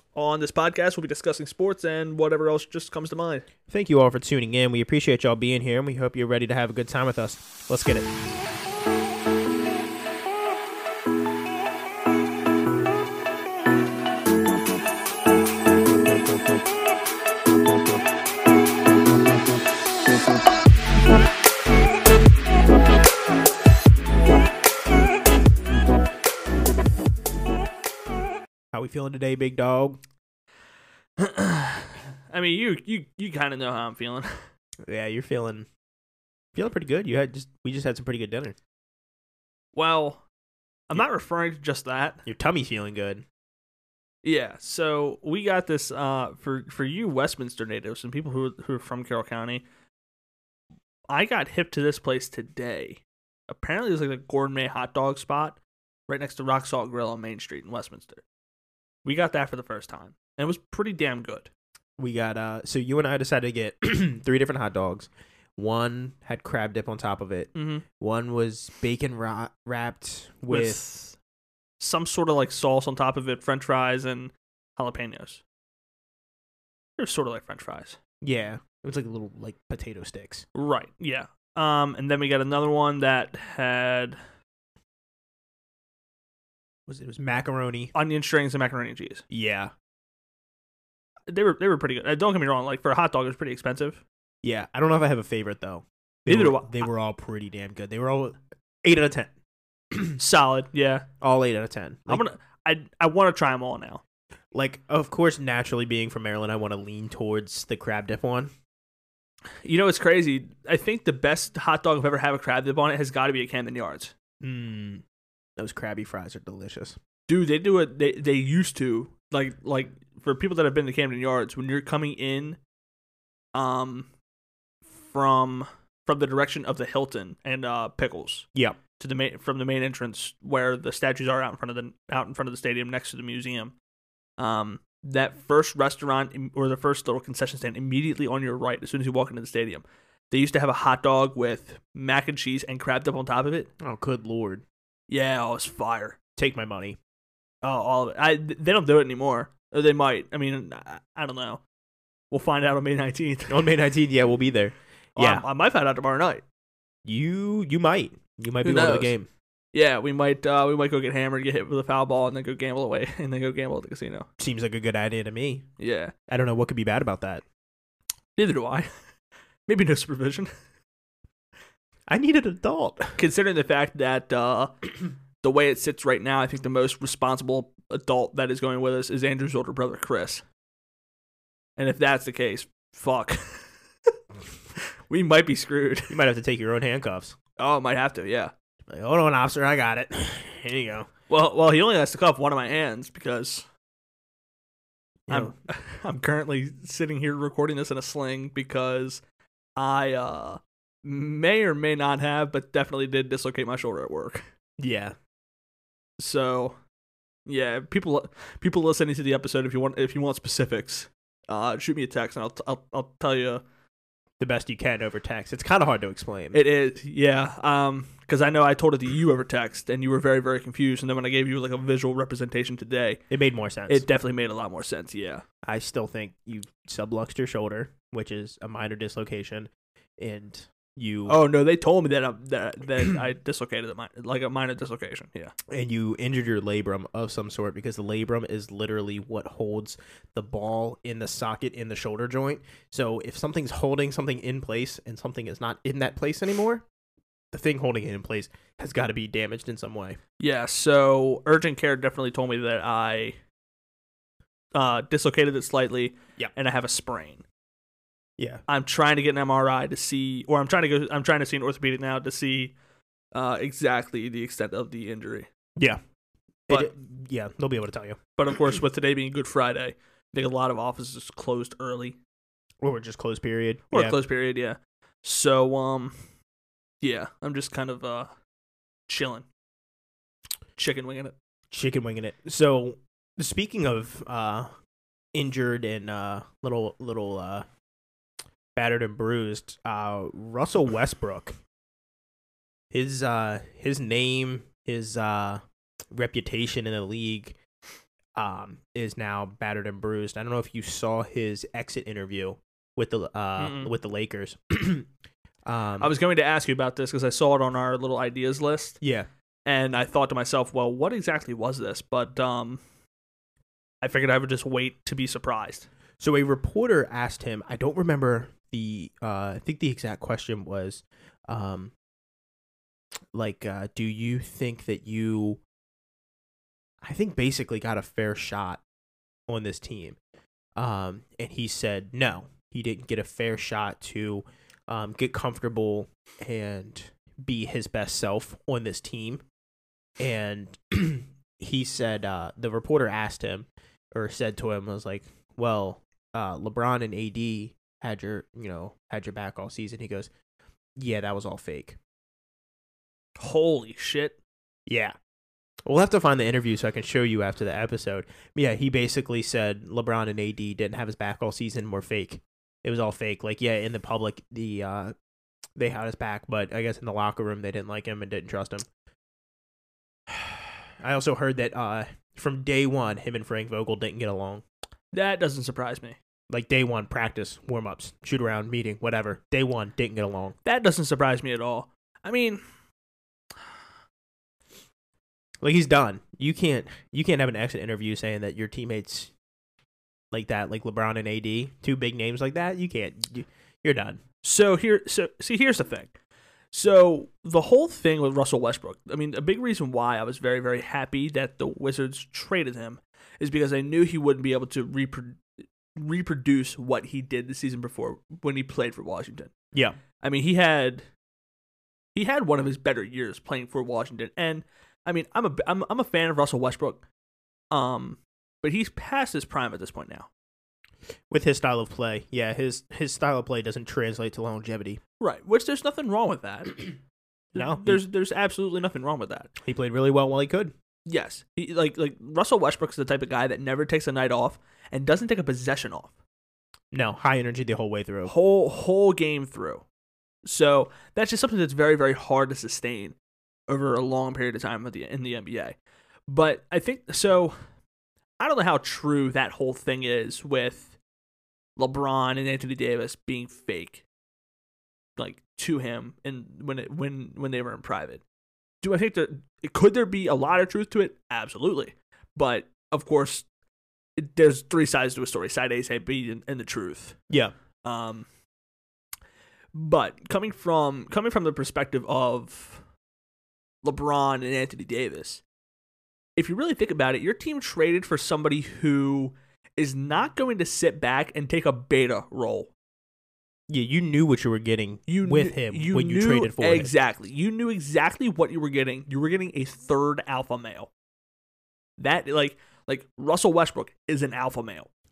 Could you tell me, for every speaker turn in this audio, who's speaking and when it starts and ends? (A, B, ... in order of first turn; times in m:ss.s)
0:00.2-0:03.4 A
0:03.7-0:08.1 B
0:28.7-0:30.0 B
0:31.2-0:34.4 A
0:34.8-0:35.7 B
0:36.6-0:38.6 B
0:39.8-0:40.2 A
0:40.9-0:42.2 A
0:42.2-0:43.2 B
0:44.2-0:49.6 A
0:51.1-0:58.2 A
0:59.0-1:01.5 A
1:02.0-1:10.8 B
1:07.6-1:07.8 A
1:10.5-1:11.2 A
1:11.8-1:15.4 A
1:17.0-1:18.0 A
1:18.2-1:20.4 B
1:20.6-1:24.2 A
1:26.9-1:27.9 B
1:27.9-1:29.2 A
1:29.3-1:29.7 B
1:31.3-1:34.0 A
1:34.4-1:39.3 B
1:36.3-1:36.9 A
1:39.9-1:40.2 B
1:40.2-1:41.1 A
1:41.2-1:42.2 B
1:42.1-1:44.0 A
1:44.5-1:48.5 B
1:49.6-1:54.1 A
1:54.4-1:55.0 B
1:55.6-1:57.0 B
1:57.3-2:02.6 A
2:03.6-2:04.1 A
2:05.0-2:08.5 A
2:09.0-2:13.8 A
2:14.4-2:23.7 A
2:23.8-2:24.6 B
2:25.1-2:26.2 A
2:26.4-2:27.0 B
2:27.6-2:31.6 A
2:32.3-2:33.6 A
2:33.5-2:35.4 B
2:35.2-2:36.4 A
2:37.0-2:39.3 B
2:38.6-2:39.2 A
2:39.7-2:44.3 A
2:44.4-2:45.7 B
2:45.8-2:46.1 A
2:46.3-2:47.4 B
2:48.4-2:48.9 A
2:49.7-2:50.5 A
2:52.1-2:53.2 B
2:53.2-3:00.4 A
3:01.8-3:03.7 A
3:04.8-3:06.2 A
3:06.1-3:07.3 B
3:07.6-3:08.5 A
3:08.9-3:11.1 B
3:11.3-3:13.7 A
3:15.3-3:15.5 B
3:15.3-3:19.2 A
3:19.8-3:24.4 A
3:24.8-3:25.2 B
3:26.2-3:26.8 A
3:27.5-3:33.6 A
3:34.4-3:36.6 B
3:36.5-3:43.2 A
3:43.3-3:44.0 B
3:43.9-3:45.4 A
3:45.6-3:51.4 B
3:51.3-3:55.5 A
3:55.7-4:06.8 B
4:07.5-4:10.2 B
4:10.4-4:13.4 A
4:14.7-4:17.4 A
4:18.4-4:18.6 B
4:18.7-4:22.7 A
4:23.3-4:25.5 A
4:25.8-4:26.0 B
4:26.7-4:28.2 B
4:28.4-4:32.2 A
4:32.8-4:34.2 B
4:33.9-4:36.2 A
4:37.0-4:38.3 A
4:39.1-4:39.4 A
4:40.8-4:41.3 A
4:41.7-4:44.7 B
4:45.3-4:47.6 B
4:48.7-4:51.5 B
4:52.9-4:57.6 B
4:58.4-5:05.1 B
5:03.6-5:03.9 A
5:05.6-5:06.1 B
5:06.0-5:09.0 A
5:09.0-5:09.3 B
5:09.6-5:12.8 A
5:14.0-5:15.9 A
5:16.2-5:21.9 B
5:23.3-5:25.6 B
5:27.0-5:28.8 B
5:29.5-5:30.2 B
5:30.8-5:39.4 B
5:40.2-5:50.3 B
5:51.0-5:52.0 B
5:53.4-5:54.4 A
5:54.9-5:55.1 B
5:55.8-6:05.1 B
6:05.8-6:08.8 B
6:10.3-6:14.6 B
6:15.1-6:16.2 A
6:16.5-6:20.5 B
6:20.6-6:22.6 A
6:25.6-6:29.3 B
6:30.3-6:34.2 B
6:34.4-6:36.1 A
6:36.7-6:45.4 A
6:45.9-6:49.5 A
6:49.7-6:50.0 B
6:50.2-6:51.0 A
6:52.1-6:57.0 A
6:57.7-7:00.3 A
7:01.3-7:05.0 B
7:05.2-7:07.0 A
7:07.5-7:08.0 B
7:07.5-7:09.5 A
7:09.6-7:10.7 B
7:11.0-7:16.1 A
7:16.9-7:18.3 B
7:18.3-7:19.8 A
7:20.4-7:23.1 A
7:23.7-7:25.8 A
7:26.3-7:27.6 A
7:28.4-7:31.0 A
7:31.8-7:34.0 A
7:35.2-7:38.2 A
7:38.8-7:43.4 A
7:44.2-7:47.2 A
7:47.8-7:48.3 A
7:49.7-7:52.8 A
7:53.8-7:55.4 A
7:56.4-8:02.7 A
8:03.7-8:06.9 B
8:05.1-8:10.9 A
8:12.0-8:14.9 A